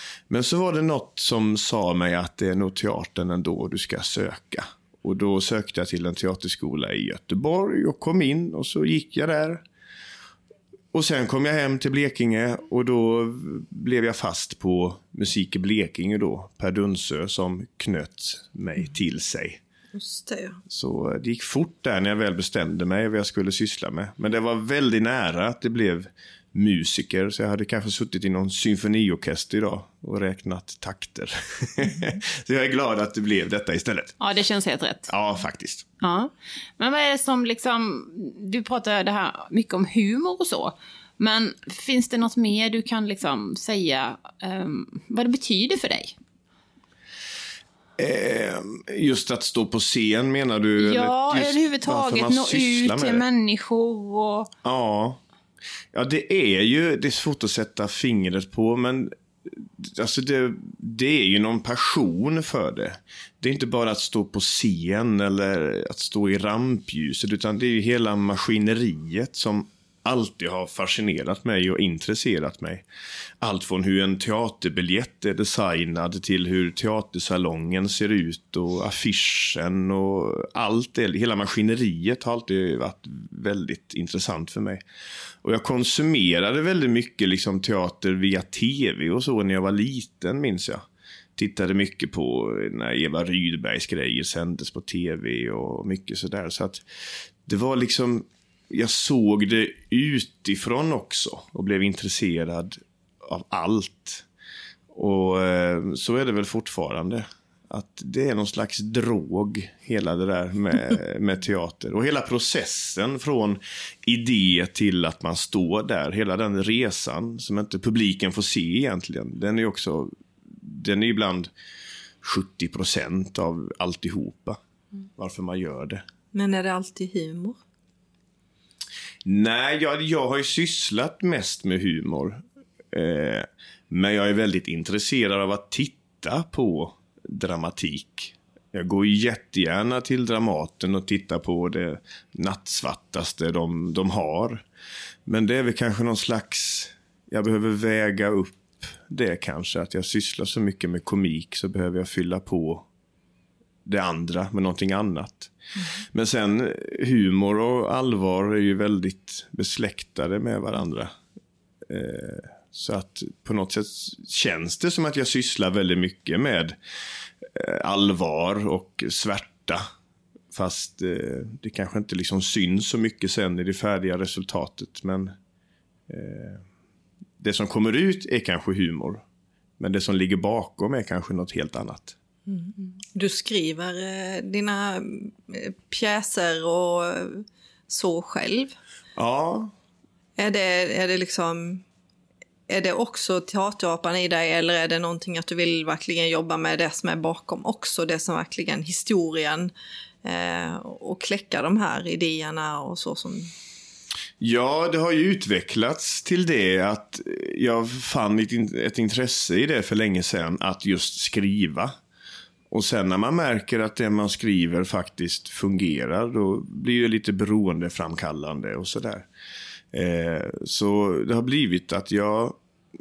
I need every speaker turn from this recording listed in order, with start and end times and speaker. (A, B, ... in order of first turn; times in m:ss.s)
0:00.3-0:09.6 A
0:10.9-0:19.6 A
0:19.9-0:20.6 B
0:20.7-0:34.2 A
0:34.2-0:35.1 C
0:35.1-0:35.9 A
0:36.0-0:46.2 C
0:48.0-0:53.2 A
0:50.8-0:54.5 C
0:54.6-0:55.2 A
0:55.9-1:12.8 A
1:13.4-1:24.8 A
1:25.4-1:30.8 A
1:31.4-1:36.8 A
1:37.4-1:44.2 A
1:44.9-2:01.5 A
2:02.2-2:04.6 A
2:05.2-2:06.0 A
2:06.3-2:07.6 B
2:09.2-2:24.6 A
2:25.3-2:32.9 A
2:33.8-2:41.1 A
2:41.9-2:46.8 A
2:47.4-2:49.8 A
2:50.5-2:55.3 A
2:56.1-2:56.6 A
2:57.4-2:59.2 A
2:59.8-3:02.2 A
3:02.5-3:08.8 B
3:09.2-3:09.7 A
3:10.4-3:11.8 B
3:12.7-3:19.7 B
3:20.2-3:23.5 B
3:24.4-3:31.9 A
3:32.7-3:39.3 A
3:39.9-3:42.6 A